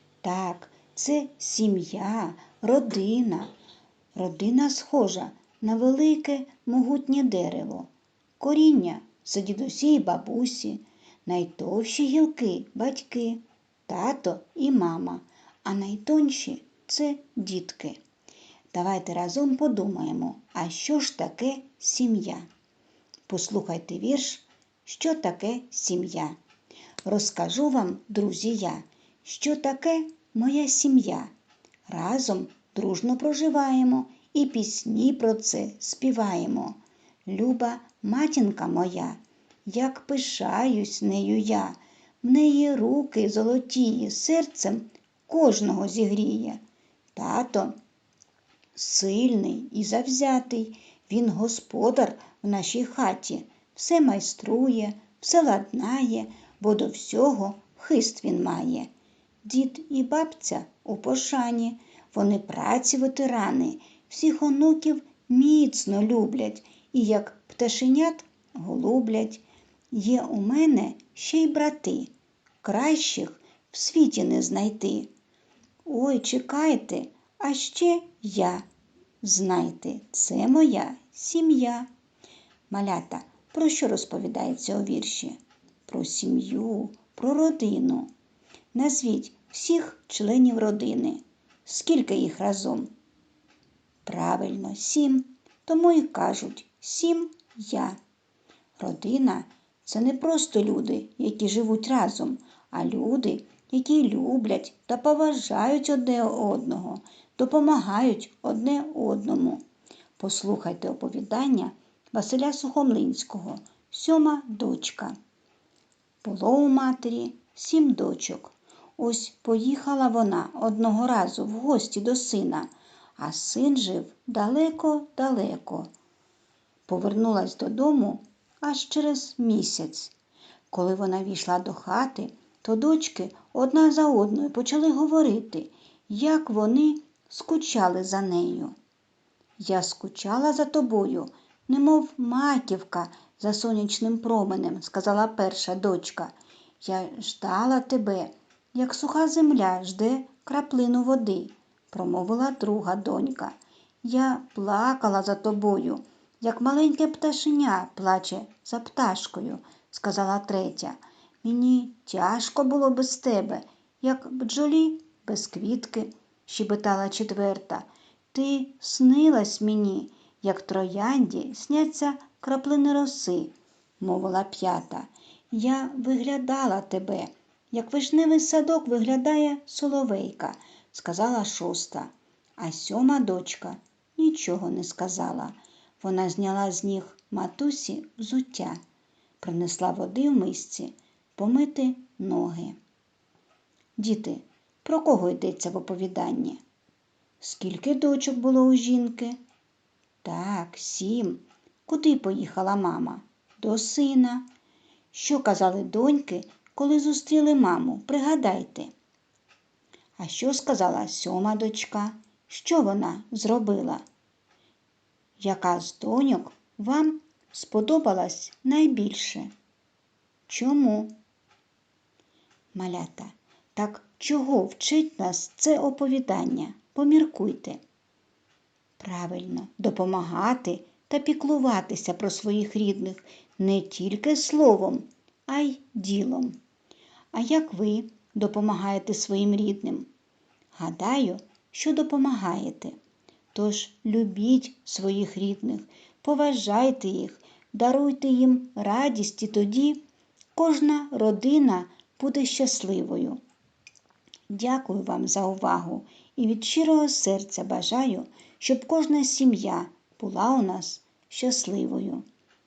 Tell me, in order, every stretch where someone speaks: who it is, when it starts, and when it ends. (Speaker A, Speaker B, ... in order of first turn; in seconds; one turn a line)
Speaker A: 0.2-3.5
Speaker A: 4.1-7.9
Speaker A: 8.4-18.0
Speaker A: 18.7-22.5
Speaker A: 23.3-26.4
Speaker A: 27.0-31.3
Speaker A: 31.9-46.6
Speaker A: 47.1-47.7
Speaker A: 48.8-58.9
Speaker A: 59.4-72.1
Speaker A: 72.6-75.1
Speaker A: 75.8-78.6
Speaker A: 79.2-81.9
Speaker A: 82.7-88.1
Speaker A: 88.7-92.9
Speaker A: 94.0-98.0
Speaker A: 98.8-109.6
Speaker A: 110.2-115.1
Speaker A: 116.2-125.9
Speaker A: 126.9-130.1
Speaker A: 130.7-138.7
Speaker A: 139.6-188.8
Speaker A: 189.4-192.8
Speaker A: 194.0-196.6
Speaker A: 197.4-199.4
Speaker A: 200.2-204.4
Speaker A: 205.1-208.9
Speaker A: 210.2-214.0
Speaker A: 215.4-219.5
Speaker A: 220.5-221.1
Speaker A: 222.7-227.8
Speaker A: 229.0-236.6
Speaker A: 237.3-240.1
Speaker A: 240.7-242.9
Speaker A: 243.5-250.0
Speaker A: 250.5-253.4
Speaker A: 254.5-262.2